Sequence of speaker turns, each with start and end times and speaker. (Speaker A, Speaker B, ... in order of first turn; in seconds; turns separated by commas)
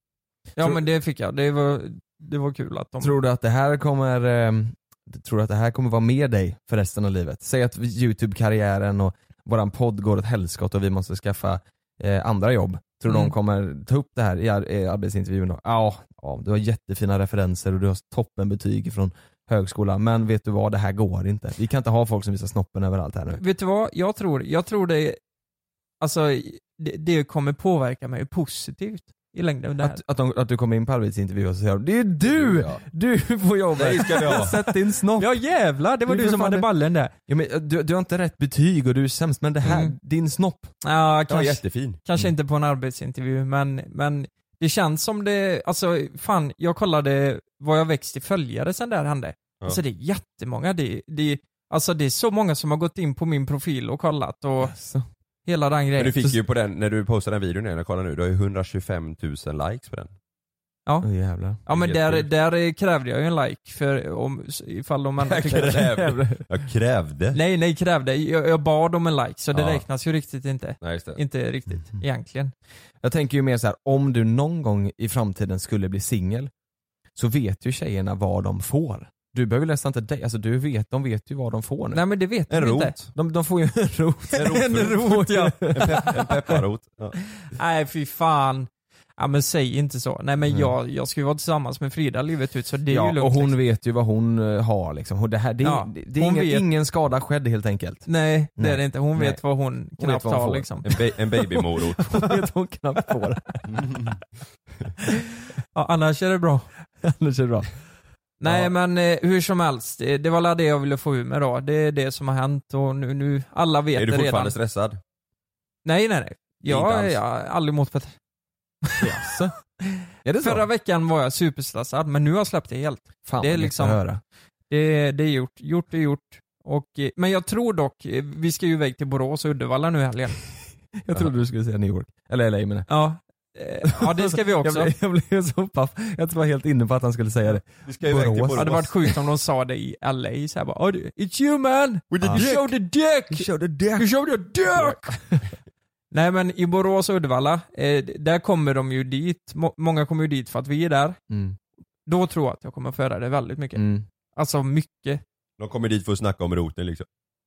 Speaker A: 0.6-3.1, Speaker B: 3.0-23.4, Speaker A: 13.1-13.3, Speaker A: 23.3-25.2, Speaker A: 26.0-30.0, Speaker B: 29.8-35.4, Speaker C: 32.2-32.8, Speaker C: 33.8-34.5, Speaker A: 34.3-37.1, Speaker B: 36.1-36.7, Speaker B: 37.3-40.7, Speaker A: 39.6-39.9, Speaker A: 40.8-54.7, Speaker C: 41.3-42.0, Speaker B: 54.6-55.0, Speaker A: 55.5-56.3, Speaker C: 56.0-60.1, Speaker B: 61.0-61.6, Speaker A: 61.6-65.8, Speaker C: 61.7-62.3, Speaker C: 65.3-67.4, Speaker B: 65.5-66.4, Speaker A: 67.3-72.5, Speaker C: 69.5-69.8, Speaker C: 70.8-71.2, Speaker B: 73.0-76.5, Speaker B: 77.2-82.0, Speaker A: 81.9-82.9, Speaker C: 82.5-83.1, Speaker B: 83.1-86.2, Speaker A: 84.3-86.3, Speaker C: 84.4-84.9, Speaker C: 85.7-87.2, Speaker A: 87.5-93.6, Speaker B: 90.5-90.7, Speaker B: 92.9-99.4, Speaker A: 95.6-96.7, Speaker A: 98.1-100.9, Speaker B: 100.0-100.8, Speaker C: 100.8-102.1, Speaker B: 101.4-103.8, Speaker A: 105.7-106.7, Speaker B: 107.0-107.7, Speaker A: 108.4-114.5, Speaker C: 114.0-115.0, Speaker A: 115.8-118.1, Speaker C: 116.7-117.2, Speaker B: 119.0-119.5, Speaker B: 120.2-120.7, Speaker A: 120.4-124.0, Speaker B: 123.2-124.2, Speaker A: 124.7-130.4, Speaker B: 131.0-132.9, Speaker A: 132.9-134.9, Speaker B: 133.8-138.8, Speaker C: 137.8-138.9, Speaker A: 138.5-145.2, Speaker C: 142.1-142.7, Speaker B: 142.2-142.6, Speaker B: 143.3-144.1, Speaker B: 144.7-145.4, Speaker A: 146.1-151.2, Speaker B: 151.3-151.6, Speaker A: 152.1-155.2, Speaker B: 153.7-154.0, Speaker C: 155.6-157.1